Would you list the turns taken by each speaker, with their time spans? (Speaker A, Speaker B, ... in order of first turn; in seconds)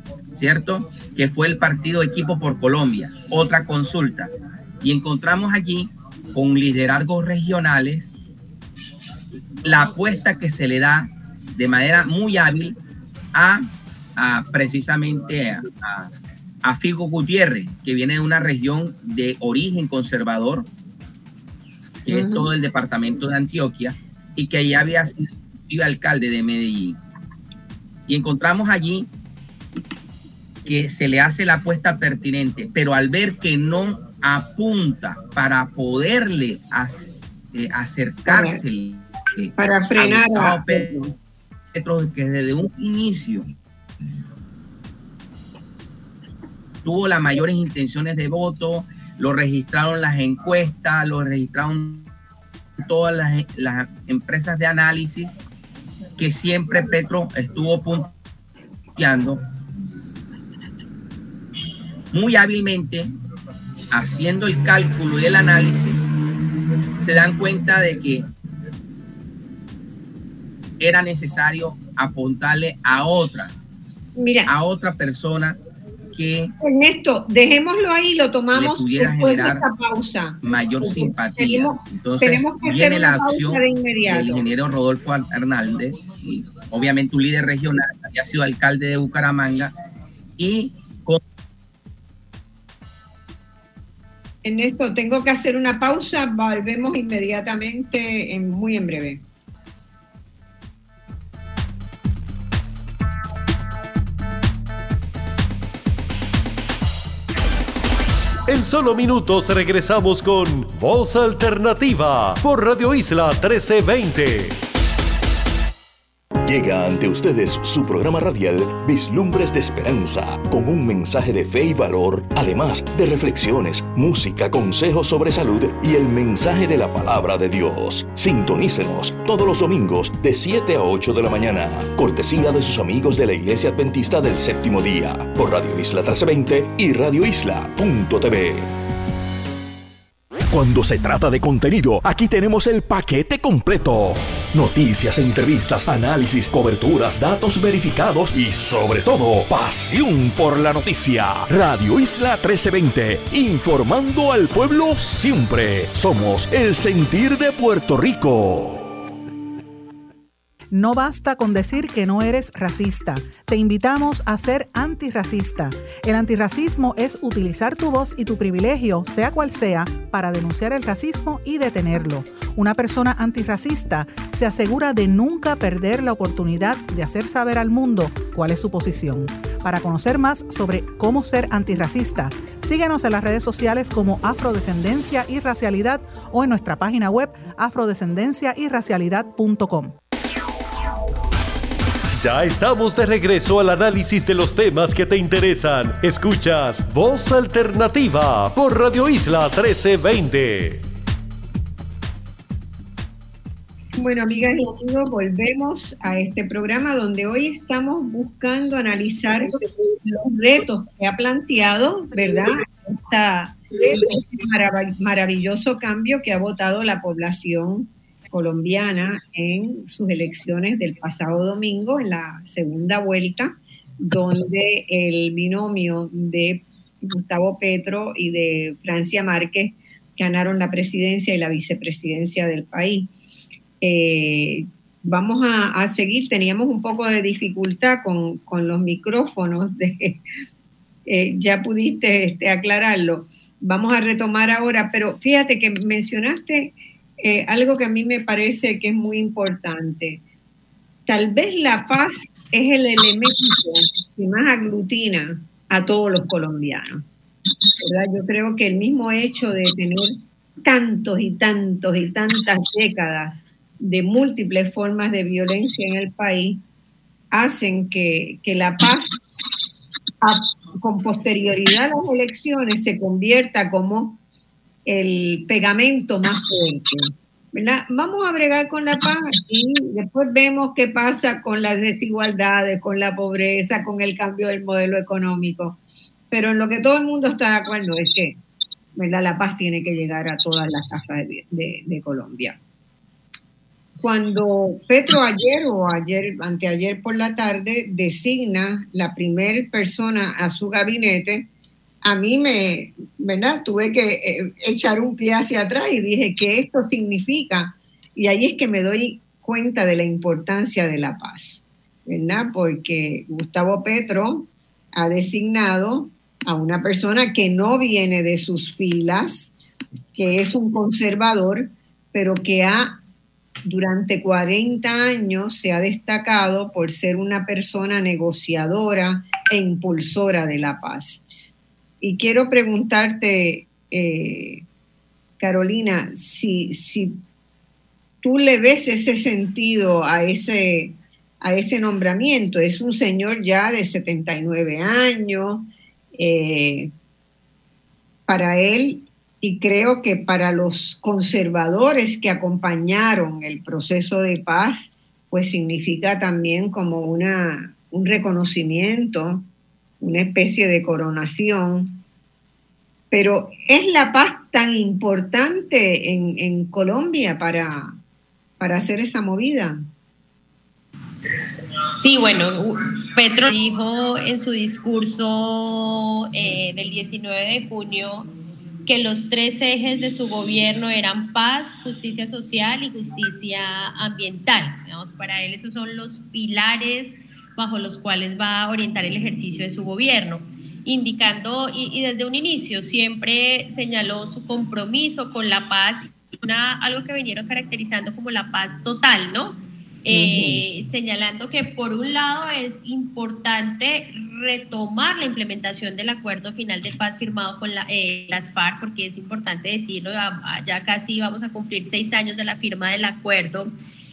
Speaker A: 0.3-8.1, 9.6-12.8, 13.3-16.1, 16.6-20.6, 22.0-27.0, 28.1-29.1, 30.6-41.0, 41.7-43.5, 46.8-52.1, 52.8-55.3, 56.2-58.1, 59.0-59.4, 62.1-63.1, 63.9-66.1, 67.0-68.2, 70.8-73.5, 74.5-75.6, 76.1-76.5, 78.5-79.6, 80.4-89.7, 90.4-91.2
Speaker B: 22.1-22.5, 38.3-38.6, 39.6-41.1, 74.2-74.5, 76.6-84.4, 94.4-99.2, 203.9-209.6, 210.1-233.1, 233.8-240.2, 241.1-250.2, 251.1-257.0, 257.8-266.6, 267.3-269.1, 270.2-274.2, 274.9-285.8, 286.3-288.4, 289.0-292.6, 294.0-301.5, 302.0-319.5, 320.1-323.0, 323.6-331.2, 332.0-334.6, 335.4-337.2, 338.2-346.9, 348.3-359.5, 360.0-362.0, 363.1-368.0, 368.6-369.9, 400.1-400.6
Speaker C: 108.5-114.5, 192.2-200.8
Speaker D: 116.4-138.7, 140.5-159.0
Speaker E: 160.7-190.0
Speaker F: 372.0-378.3, 378.9-413.7